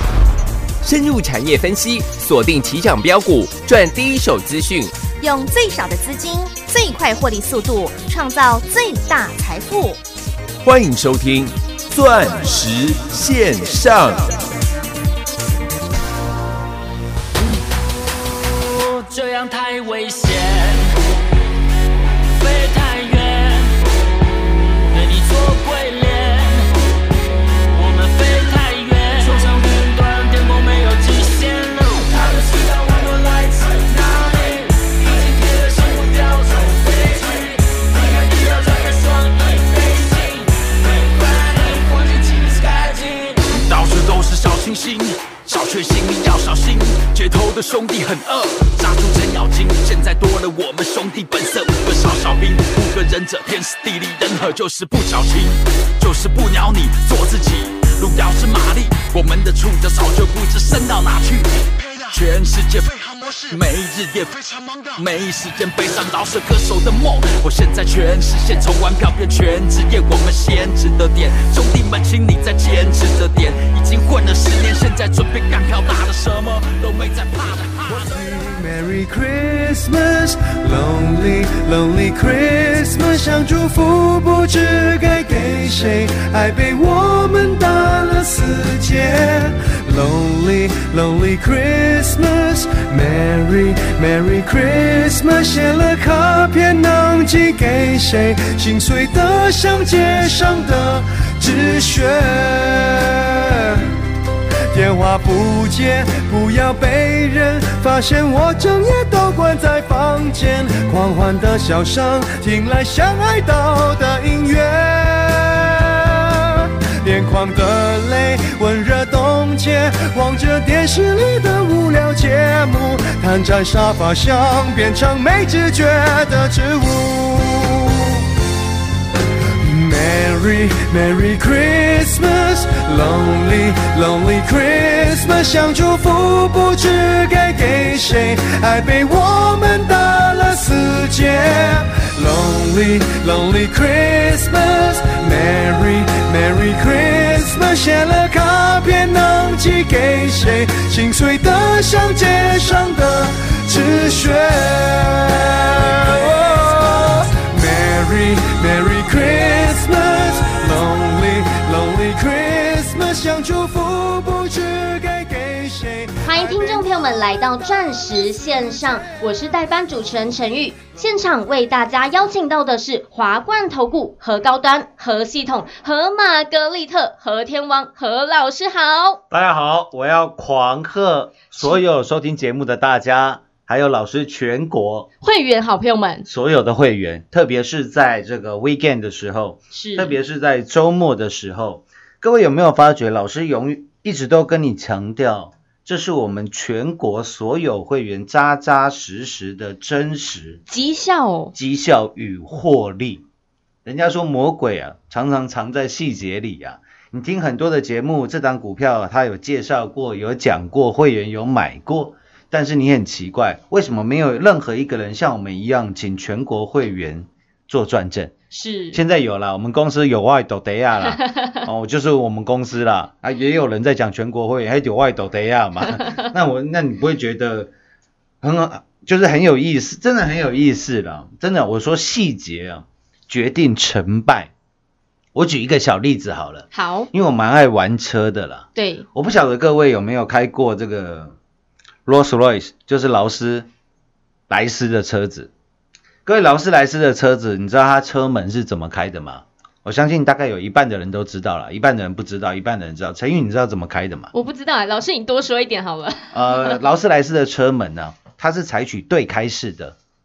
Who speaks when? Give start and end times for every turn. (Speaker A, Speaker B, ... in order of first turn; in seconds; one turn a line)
Speaker A: 0.8-5.1
Speaker B: 5.1-10.0
Speaker A: 10.6-14.3
Speaker C: 18.6-20.9
Speaker C: 22.3-23.7
Speaker C: 24.9-26.7
Speaker C: 27.7-78.1
Speaker D: 77.9-103.9
Speaker D: 104.7-128.2
Speaker D: 129.6-166.8
Speaker E: 166.2-179.2
Speaker F: 179.3-185.1
Speaker E: 185.2-186.3
Speaker F: 186.2-200.6
Speaker E: 189.7-190.2
Speaker E: 200.7-201.5
Speaker F: 201.5-203.2
Speaker F: 203.8-218.3
Speaker E: 218.5-219.0
Speaker F: 218.9-227.7
Speaker E: 221.0-221.6
Speaker E: 225.9-226.3
Speaker F: 228.4-234.5
Speaker F: 235.3-241.3
Speaker E: 236.7-237.1
Speaker E: 238.7-239.1
Speaker F: 242.1-243.7
Speaker F: 244.5-245.5
Speaker F: 246.2-254.3
Speaker E: 254.3-256.8
Speaker F: 256.3-259.9